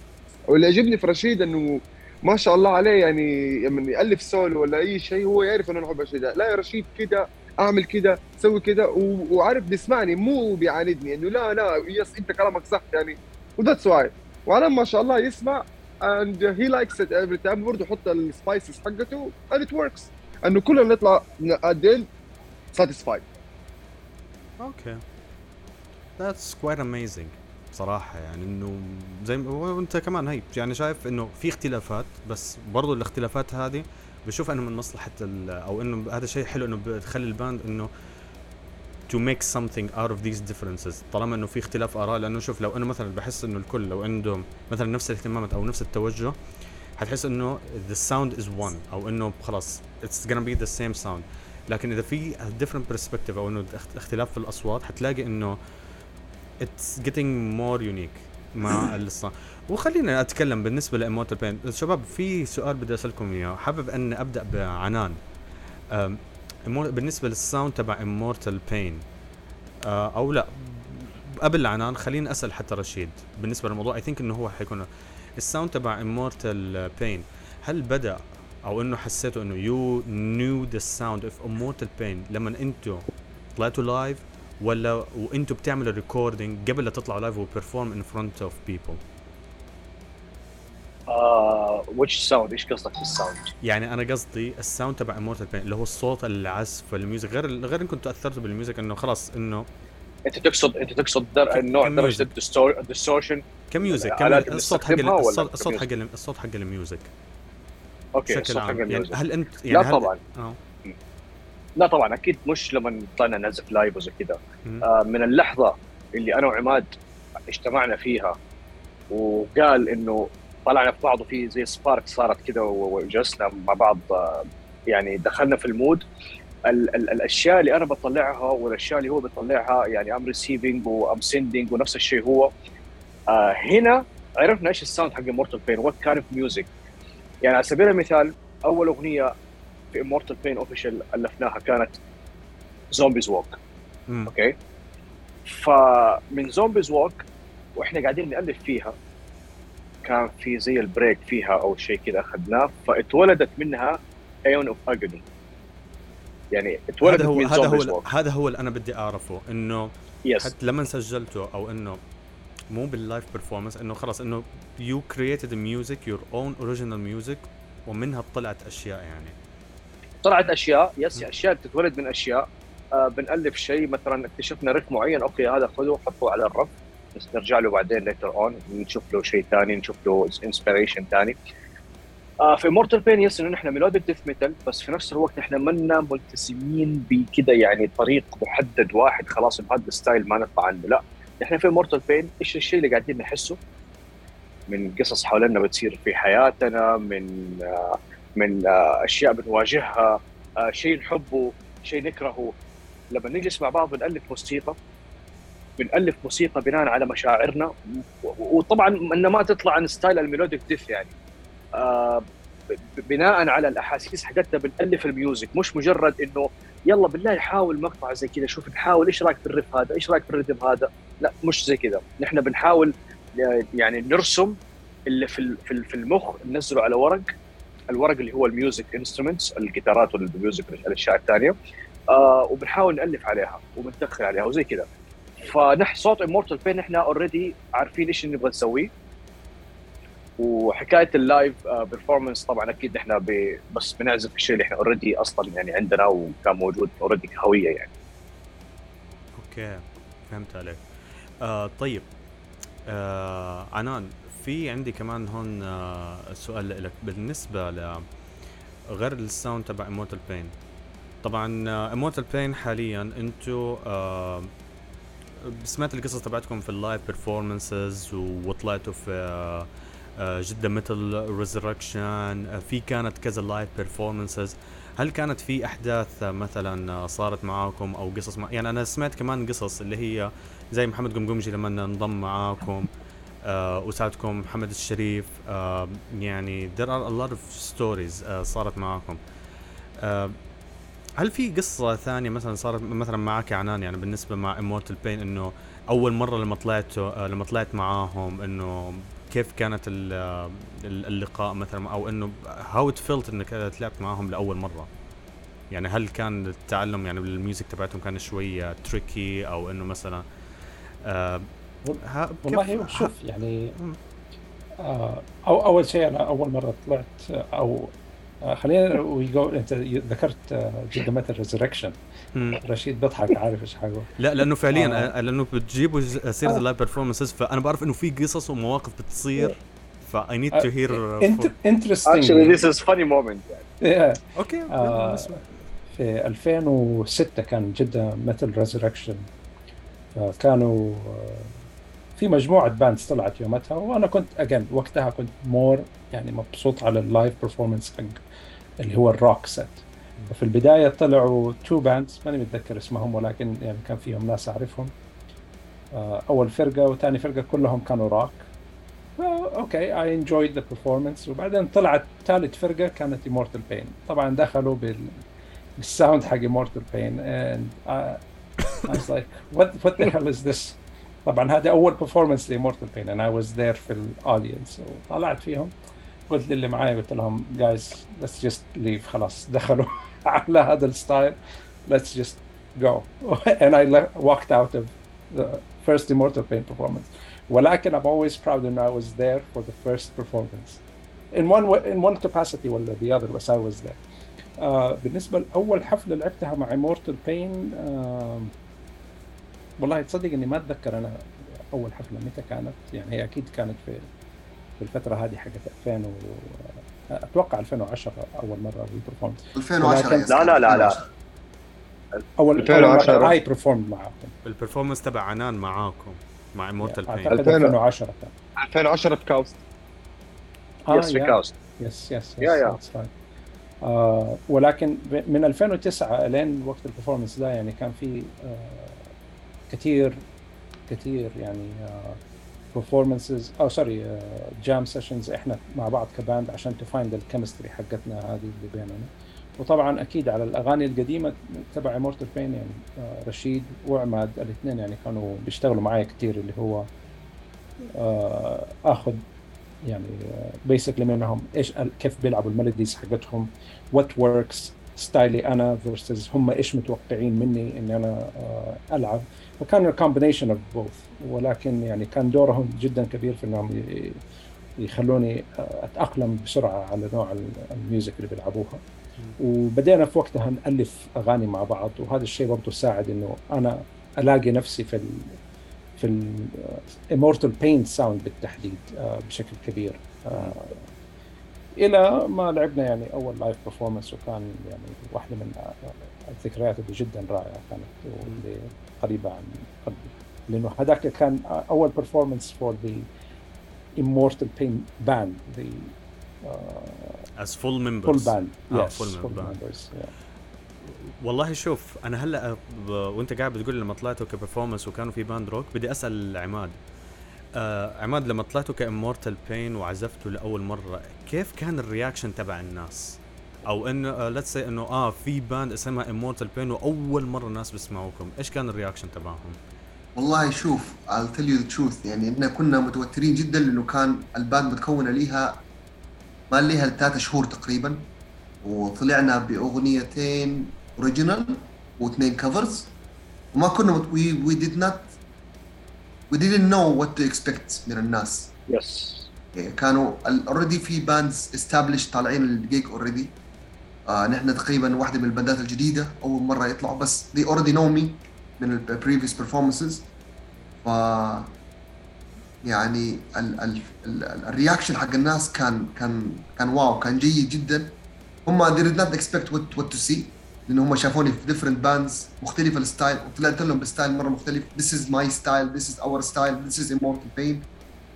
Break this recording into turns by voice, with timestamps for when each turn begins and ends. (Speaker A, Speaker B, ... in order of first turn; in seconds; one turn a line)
Speaker A: 0.5-22.1
Speaker A: 22.7-23.2
Speaker B: 24.6-25.0
Speaker B: 26.2-37.9
Speaker B: 39.1-46.4
Speaker B: 47.0-55.6
Speaker B: 56.6-65.2
Speaker B: 65.9-69.0
Speaker B: 69.8-74.9
Speaker B: 75.4-83.0
Speaker B: 83.5-89.0
Speaker C: 91.1-93.5
Speaker B: 93.6-99.7
Speaker C: 100.2-105.8
Speaker B: 101.5-102.3
Speaker B: 103.7-107.1
Speaker C: 108.1-109.2
Speaker B: 108.3-110.6
Speaker C: 109.7-110.2
Speaker C: 111.8-116.9
Speaker C: 117.5-118.3
Speaker C: 119.1-126.0
Speaker C: 126.7-132.5
Speaker C: 133.3-136.7
Speaker C: 137.4-139.3
Speaker C: 139.9-142.0
Speaker C: 142.9-143.6
Speaker C: 144.3-144.5
Speaker C: 145.5-147.2
Speaker C: 147.8-148.9
Speaker C: 150.0-155.2
Speaker C: 156.5-158.0
Speaker B: 157.0-162.0
Speaker C: 160.2-160.5
Speaker B: 162.7-169.3
Speaker C: 170.2-181.3
Speaker C: 182.4-193.6
Speaker C: 194.7-202.5
Speaker C: 203.1-204.7
Speaker C: 205.8-211.1
Speaker C: 211.8-212.2
Speaker C: 213.0-224.6
Speaker C: 225.1-227.3
Speaker C: 227.9-231.5
Speaker C: 232.1-234.8
Speaker C: 235.4-238.9
Speaker C: 240.4-247.9
Speaker B: 249.3-250.8
Speaker B: 251.4-252.0
Speaker B: 252.9-258.0
Speaker B: 258.9-260.5
Speaker B: 261.2-264.5
Speaker B: 265.4-282.9
Speaker B: 283.4-289.2
Speaker B: 290.0-290.4
Speaker B: 291.2-304.9
Speaker B: 305.7-310.2
Speaker B: 311.0-311.5
Speaker D: 311.8-313.7
Speaker B: 312.0-313.1
Speaker D: 314.8-317.9
Speaker D: 318.4-322.0
Speaker B: 322.3-322.6
Speaker D: 322.6-324.1
Speaker B: 324.2-331.5
Speaker D: 324.7-325.1
Speaker D: 330.5-332.6
Speaker C: 332.1-333.6
Speaker D: 333.8-335.4
Speaker B: 334.4-335.5
Speaker D: 335.9-339.3
Speaker D: 340.2-341.5
Speaker D: 342.2-348.2
Speaker D: 348.8-354.9
Speaker D: 355.9-358.4
Speaker D: 359.2-365.2
Speaker D: 365.8-368.2
Speaker D: 368.8-375.7
Speaker D: 376.3-390.8
Speaker D: 391.3-394.0
Speaker D: 394.6-398.5
Speaker D: 399.8-401.2
Speaker D: 401.7-404.1
Speaker D: 404.8-410.4
Speaker E: 409.5-411.1
Speaker C: 410.2-411.0
Speaker D: 412.4-414.3
Speaker A: 412.6-413.3
Speaker B: 414.4-417.4
Speaker D: 416.8-418.3
Speaker A: 417.3-417.8
Speaker A: 418.6-419.6
Speaker D: 420.9-423.1
Speaker C: 420.9-421.5
Speaker C: 422.4-422.8
Speaker D: 423.8-429.0
Speaker D: 429.7-430.2
Speaker D: 430.9-432.2
Speaker D: 432.7-446.9
Speaker D: 447.9-449.2
Speaker D: 449.8-464.2
Speaker D: 464.8-468.8
Speaker D: 469.4-475.3
Speaker D: 476.0-480.8
Speaker D: 481.8-493.1
Speaker D: 494.0-497.2
Speaker B: 497.4-499.6
Speaker D: 498.0-500.1
Speaker B: 500.9-506.8
Speaker B: 507.5-519.6
Speaker E: 520.1-525.6
Speaker E: 526.5-528.0
Speaker E: 528.6-532.9
Speaker E: 533.5-535.1
Speaker E: 536.3-538.5
Speaker C: 538.7-539.3
Speaker E: 539.5-543.3
Speaker E: 544.1-550.0
Speaker E: 550.8-551.5
Speaker E: 552.6-557.9
Speaker E: 558.4-567.7